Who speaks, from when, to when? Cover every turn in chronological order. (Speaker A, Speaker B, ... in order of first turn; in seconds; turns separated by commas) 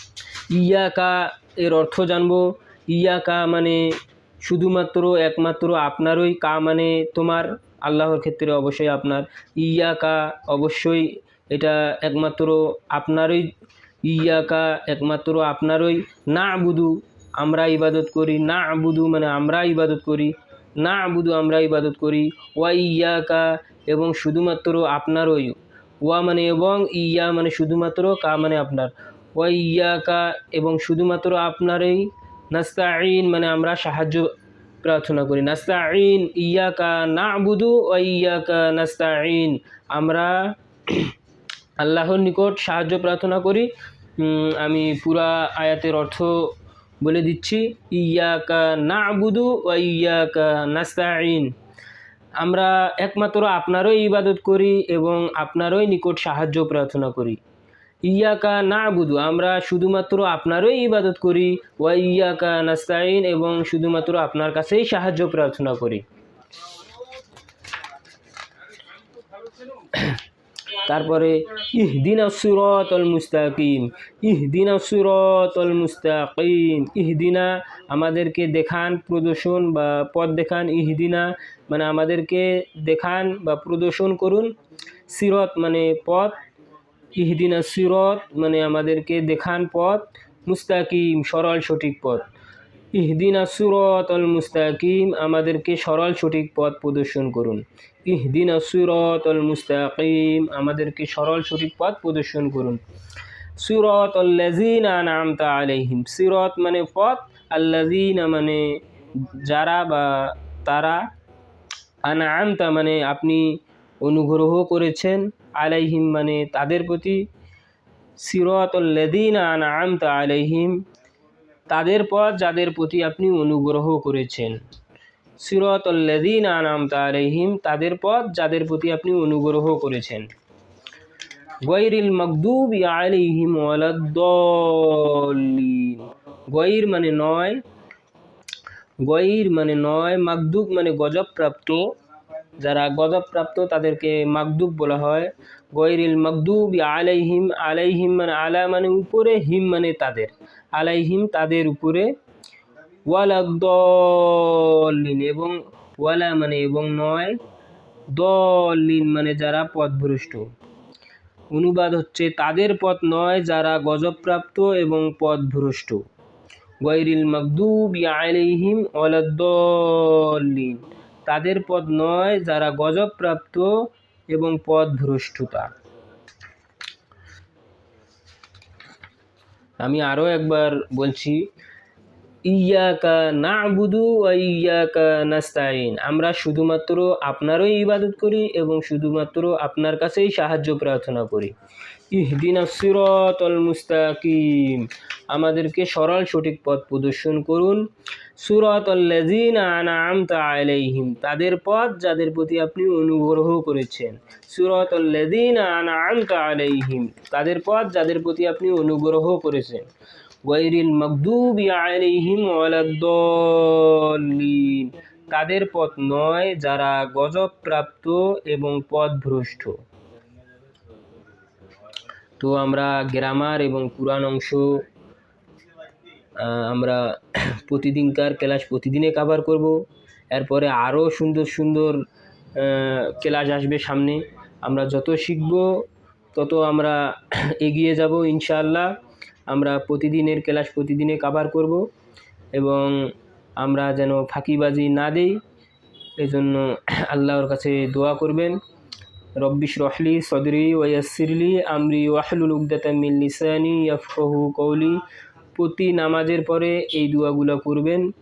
Speaker A: 0.5-34.3, Speaker A: 34.8-41.1, Speaker A: 41.8-51.5, Speaker A: 52.4-57.4, Speaker A: 58.0-66.0, Speaker A: 69.9-70.2, Speaker A: 70.8-84.5, Speaker A: 85.1-86.4, Speaker A: 87.2-92.3, Speaker A: 92.9-102.8, Speaker A: 103.6-111.1, Speaker A: 112.0-117.2, Speaker A: 118.2-120.8, Speaker A: 121.7-124.6, Speaker A: 125.4-130.3, Speaker A: 131.6-137.6, Speaker A: 139.0-142.0, Speaker A: 142.6-152.1, Speaker A: 153.1-157.4, Speaker A: 158.1-160.5, Speaker A: 161.5-166.0, Speaker A: 166.8-175.7, Speaker A: 179.8-181.5, Speaker A: 182.4-191.5, Speaker A: 192.1-197.9, Speaker A: 198.4-209.9, Speaker A: 210.4-219.8, Speaker A: 222.4-224.8, Speaker A: 226.4-232.0, Speaker A: 232.6-238.9, Speaker A: 239.5-241.9, Speaker A: 242.5-245.4, Speaker A: 246.2-248.6, Speaker A: 249.4-255.0, Speaker A: 255.6-258.1